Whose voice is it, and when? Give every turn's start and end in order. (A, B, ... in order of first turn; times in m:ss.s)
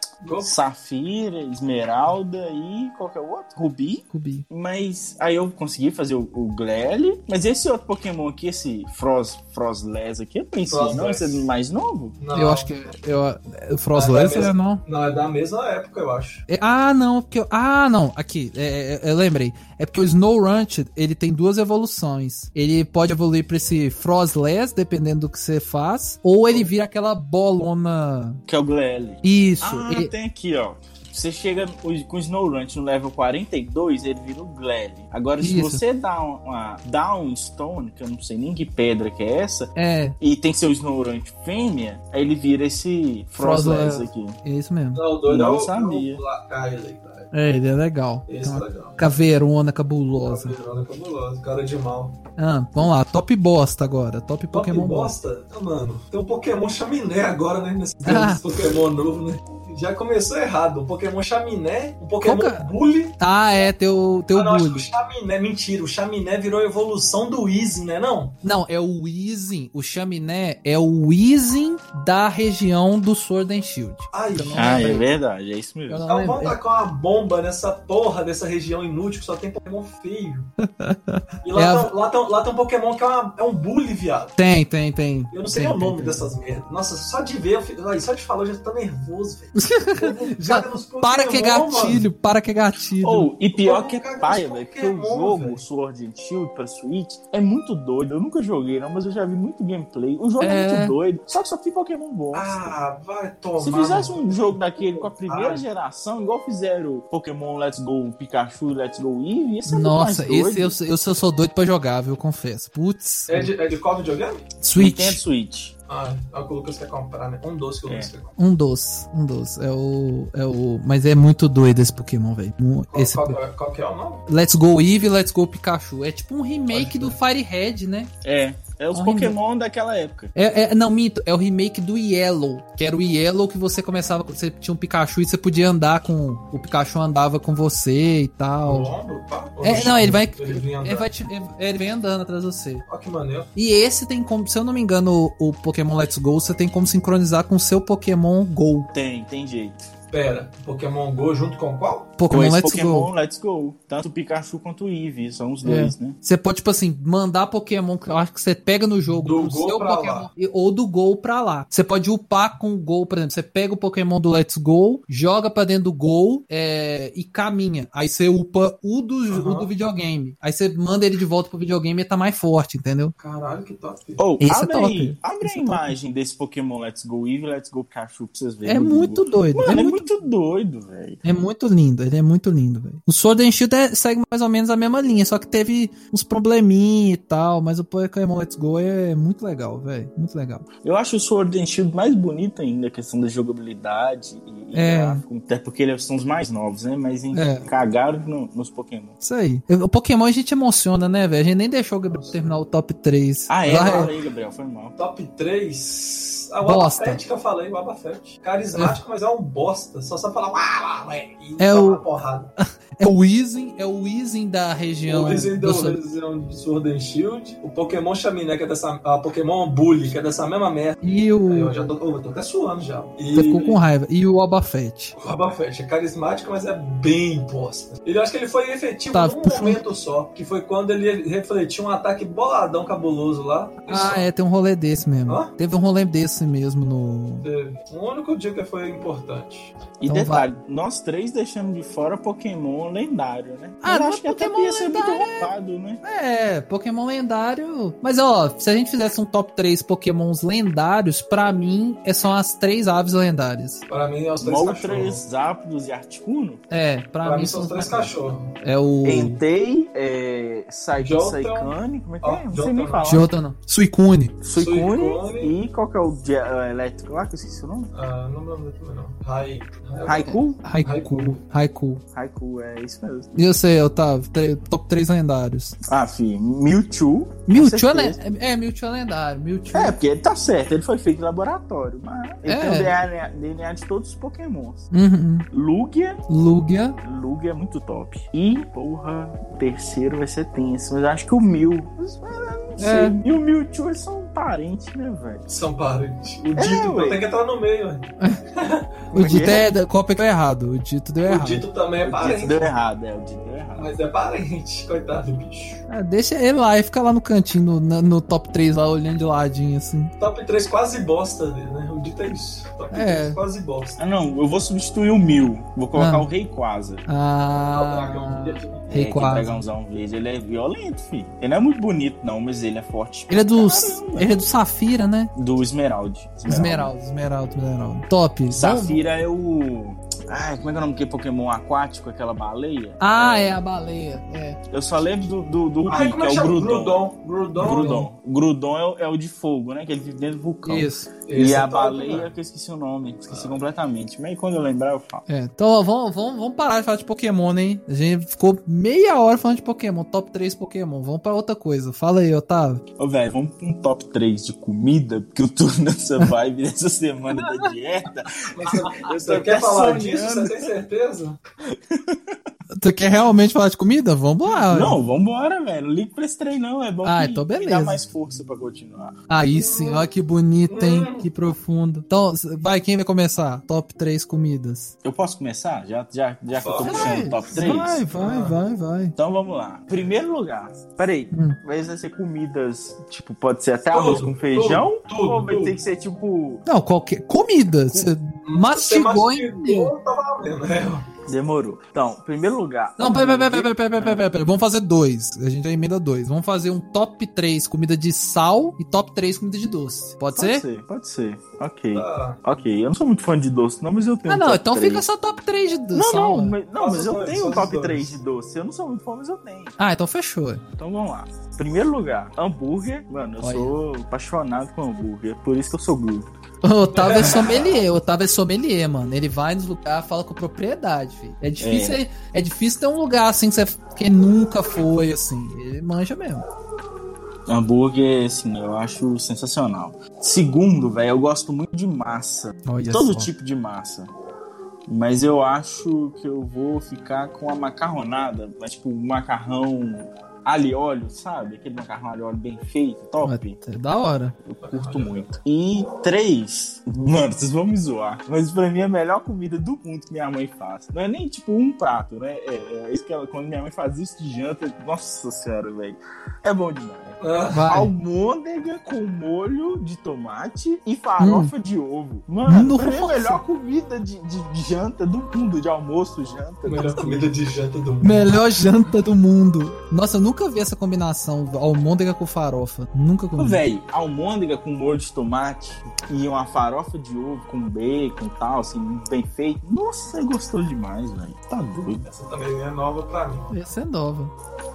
0:00.2-0:00.5 A
0:00.4-0:12.2 B
0:04.1-0:04.4 C
0:10.7-0:11.4 A
0:12.2-0:12.7 A
0:12.3-0:14.8 C
0:13.9-0:16.4 A
0:16.5-0:28.4 C
0:28.5-0:44.4 B
0:29.2-0:30.1 C
0:35.4-0:35.8 C
0:39.8-0:40.2 C
0:43.4-0:45.0 C
0:44.9-0:47.3 A
0:45.3-0:46.2 B
0:47.3-0:50.5 C
0:48.3-0:49.0 A
0:50.2-0:52.2 A
0:52.4-0:55.1 C
0:54.5-1:03.2 A
0:58.0-0:58.4 C
1:02.2-1:04.9 C
1:04.3-1:08.4 A
1:08.4-1:15.1 C
1:14.1-1:14.9 A
1:14.5-1:16.0 B
1:15.9-1:16.6 C
1:16.1-1:20.5 A
1:20.6-1:21.9 C
1:21.4-1:24.4 A
1:24.4-1:26.3 C
1:25.3-1:32.1 A
1:29.6-1:33.3 C
1:33.0-1:42.7 B
1:33.5-1:35.6 A
1:40.4-1:40.9 C
1:42.3-1:45.6 A
1:43.6-1:50.7 B
1:49.7-1:53.5 C
1:53.3-1:54.4 A
1:54.6-1:55.2 C
1:54.8-1:55.7 B
1:55.9-1:58.4 A
1:58.4-2:03.4 C
2:02.9-2:04.2 A
2:04.3-2:08.1 C
2:06.7-2:07.2 A
2:08.2-2:10.3 B
2:08.9-2:09.4 C
2:10.3-2:18.9 C
2:18.6-2:21.1 A
2:19.6-2:22.8 C
2:22.8-2:23.5 A
2:23.6-2:28.9 C
2:28.9-2:29.8 B
2:30.1-2:32.1 A
2:32.2-2:33.1 C
2:32.3-2:36.2 B
2:35.6-2:53.1 C
2:39.2-2:40.3 A
2:49.3-2:49.7 A
2:53.2-2:54.2 A
2:54.2-3:01.2 B
2:54.4-2:55.9 C
2:58.6-3:00.1 C
3:01.2-3:10.7 C
3:10.8-3:19.1 B
3:14.7-3:15.2 C
3:17.3-3:17.7 C
3:19.2-3:24.1 C
3:22.1-3:22.5 A
3:23.5-3:25.0 B
3:23.6-3:24.2 A
3:25.0-3:32.5 A
3:26.6-3:27.2 C
3:31.6-3:32.0 C
3:32.6-3:36.0 C
3:35.0-3:43.8 A
3:41.0-3:41.7 C
3:43.3-3:45.1 C
3:45.2-3:54.3 A
3:49.1-3:49.8 C
3:53.9-3:57.5 C
3:55.3-3:55.5 A
3:57.4-3:59.7 A
4:00.0-4:06.0 B
4:00.1-4:00.5 C
4:03.8-4:05.5 C
4:06.0-4:13.8 C
4:13.9-4:15.2 A
4:14.4-4:16.6 B
4:16.7-4:18.1 C
4:17.2-4:18.5 A
4:18.6-4:19.4 C
4:19.0-4:23.3 B
4:21.0-4:23.2 A
4:23.0-4:24.4 C
4:24.4-4:27.9 B
4:24.5-4:25.5 A
4:27.9-4:31.4 A
4:30.0-4:30.6 B
4:30.6-4:32.0 C
4:32.1-4:33.3 B
4:33.3-4:35.8 C
4:35.9-4:38.2 B
4:37.5-4:40.0 C
4:39.7-4:44.9 B
4:42.4-4:42.9 C
4:44.9-4:45.4 C
4:45.5-4:46.2 B
4:46.3-4:47.0 C
4:47.0-4:55.4 B
4:52.8-4:53.2 C
4:55.5-4:58.9 A
4:56.6-4:57.2 B
4:59.1-4:59.7 B
4:59.1-5:01.6 C
5:01.2-5:02.7 A
5:02.0-5:04.0 B
5:03.8-5:05.8 A
5:05.9-5:10.1 C
5:10.2-5:14.0 A
5:12.9-5:13.4 C
5:14.0-5:17.0 B
5:15.9-5:16.3 C
5:17.1-5:19.6 C
5:17.7-5:18.9 A
5:18.9-5:24.4 B
5:23.3-5:25.3 C
5:25.3-5:26.9 B
5:26.5-5:29.0 C
5:28.5-5:33.6 B
5:33.0-5:34.6 C
5:34.7-5:37.0 B
5:35.8-5:38.1 A
5:37.6-5:45.2 B
5:40.6-5:41.1 C
5:41.2-5:42.3 A
5:43.3-5:43.6 A
5:45.3-5:52.8 C
5:53.0-6:00.7 B
5:57.4-5:57.7 C
5:58.5-6:01.4 A
6:01.6-6:02.4 B
6:02.7-6:05.0 C
6:04.7-6:09.2 B
6:07.0-6:08.0 C
6:09.3-6:15.0 C
6:09.5-6:10.1 A
6:10.7-6:11.3 A
6:15.0-6:18.0 B
6:16.6-6:18.6 A
6:16.8-6:19.1 C
6:19.2-6:26.6 B
6:21.3-6:21.6 C
6:23.9-6:25.8 A
6:26.6-6:29.9 C
6:28.4-6:31.0 A
6:31.3-6:34.2 B
6:33.0-6:40.6 C
6:40.3-6:45.0 B
6:41.9-6:42.4 A
6:44.3-6:46.6 C
6:45.9-6:49.8 B
6:46.8-6:48.1 A
6:49.8-6:50.6 C
6:50.8-6:56.3 B
6:53.4-6:53.8 C
6:56.6-7:06.4 C
6:56.9-6:57.8 A
7:01.6-7:02.0 B
7:07.5-7:14.1 B
7:12.6-7:13.3 C
7:14.9-7:23.6 B
7:23.2-7:24.4 C
7:24.4-7:47.2 B
7:24.6-7:25.3 A
7:37.2-7:37.7 A
7:37.5-7:37.9 C
7:41.2-7:41.5 C
7:42.5-7:43.4 C
7:46.6-7:48.3 A
7:48.0-7:53.6 C
7:53.4-8:02.0 B
8:01.8-8:03.5 A
8:03.5-8:04.3 C